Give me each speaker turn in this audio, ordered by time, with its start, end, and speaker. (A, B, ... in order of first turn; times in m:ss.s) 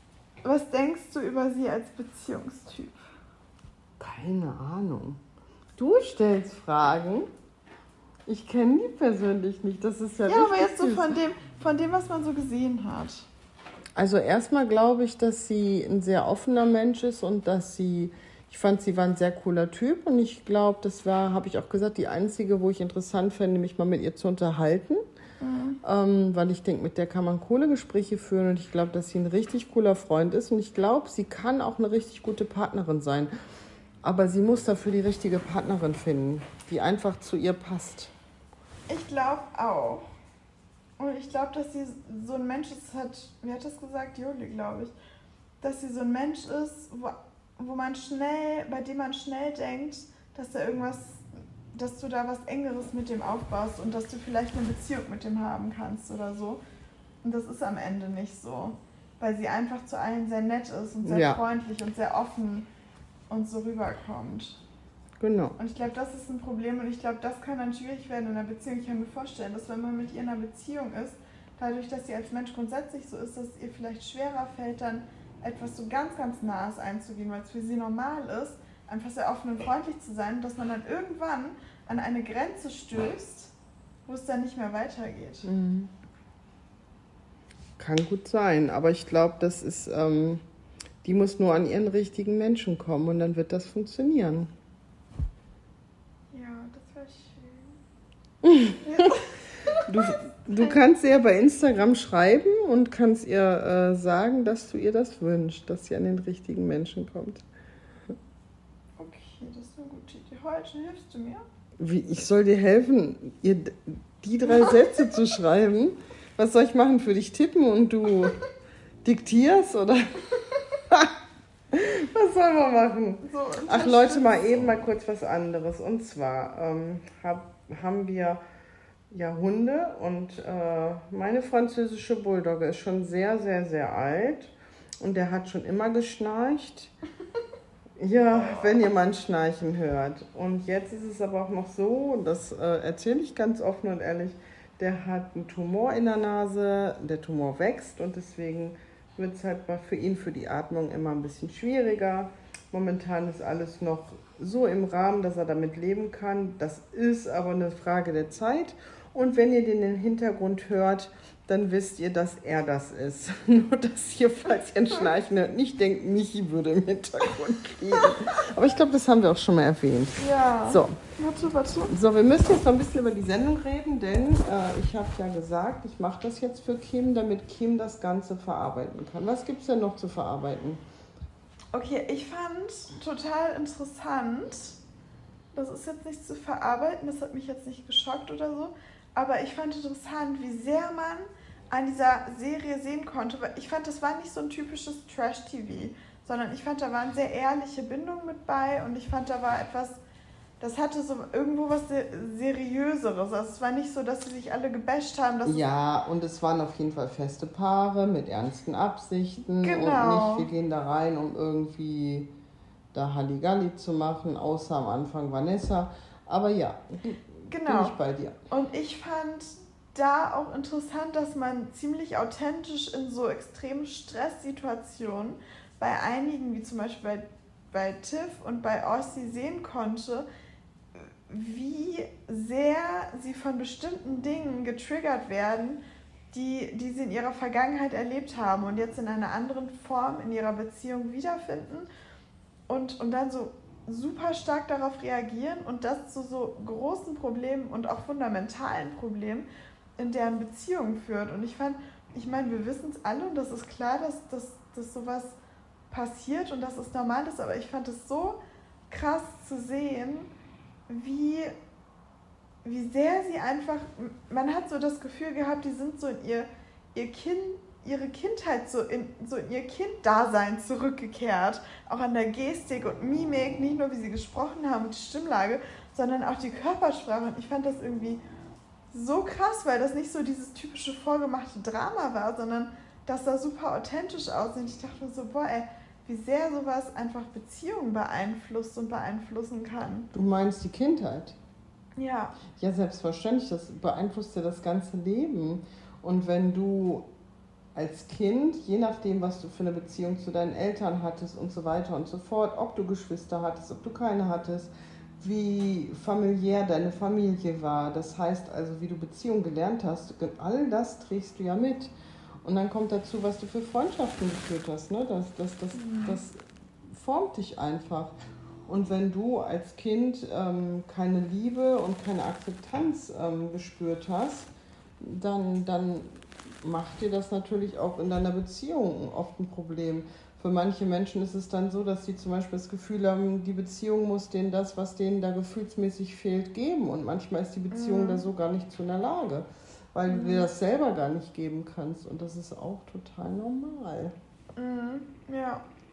0:00.4-0:03.0 A
0:04.0-0:05.2 B
0:05.8-0:07.3 B
0:08.3-0:11.2 B
0:10.3-0:13.3 A
0:14.0-0:25.0 B
0:25.4-0:25.8 A
0:25.8-0:33.3 B
0:34.0-0:38.1 B
0:38.9-0:40.1 A
0:41.0-0:45.0 A
0:45.6-0:56.6 A
0:57.2-1:02.7 A
1:01.0-1:01.4 B
1:03.3-1:04.6 A
1:05.2-1:05.6 B
1:05.6-1:23.5 A
1:24.1-1:25.5 A
1:25.4-1:25.9 B
1:27.8-1:30.4 B
1:31.0-1:34.5 B
1:36.3-1:37.8 A
1:38.4-1:39.1 B
1:38.8-1:39.9 A
1:39.8-1:47.4 B
1:49.0-1:51.4 A
1:51.8-1:58.4 B
1:59.0-2:01.1 B
2:01.7-2:08.4 B
2:03.2-2:04.8 A
2:09.1-2:16.9 B
2:18.0-2:51.0 B
2:18.3-2:18.8 A
2:50.2-2:51.9 A
2:51.9-3:00.8 B
3:01.7-3:04.8 A
3:05.5-3:20.0 A
3:20.6-3:25.6 A
3:25.4-3:32.3 B
3:29.6-3:30.5 A
3:32.9-3:38.4 B
3:37.5-3:38.0 A
3:38.5-3:50.3 A
3:51.0-3:55.8 A
3:56.3-4:01.9 A
4:02.7-4:09.5 A
4:10.0-4:15.4 A
4:15.9-4:18.4 A
4:18.9-4:20.3 A
4:20.9-4:21.5 A
4:22.6-4:38.2 A
4:38.9-4:50.1 A
4:50.1-4:51.4 B
4:52.0-4:52.4 A
4:52.5-4:57.1 B
4:57.8-5:11.9 B
5:12.4-5:18.1 B
5:15.7-5:16.2 A
5:18.7-5:44.1 B
5:37.7-5:38.2 A
5:40.1-5:40.5 A
5:44.6-5:45.6 A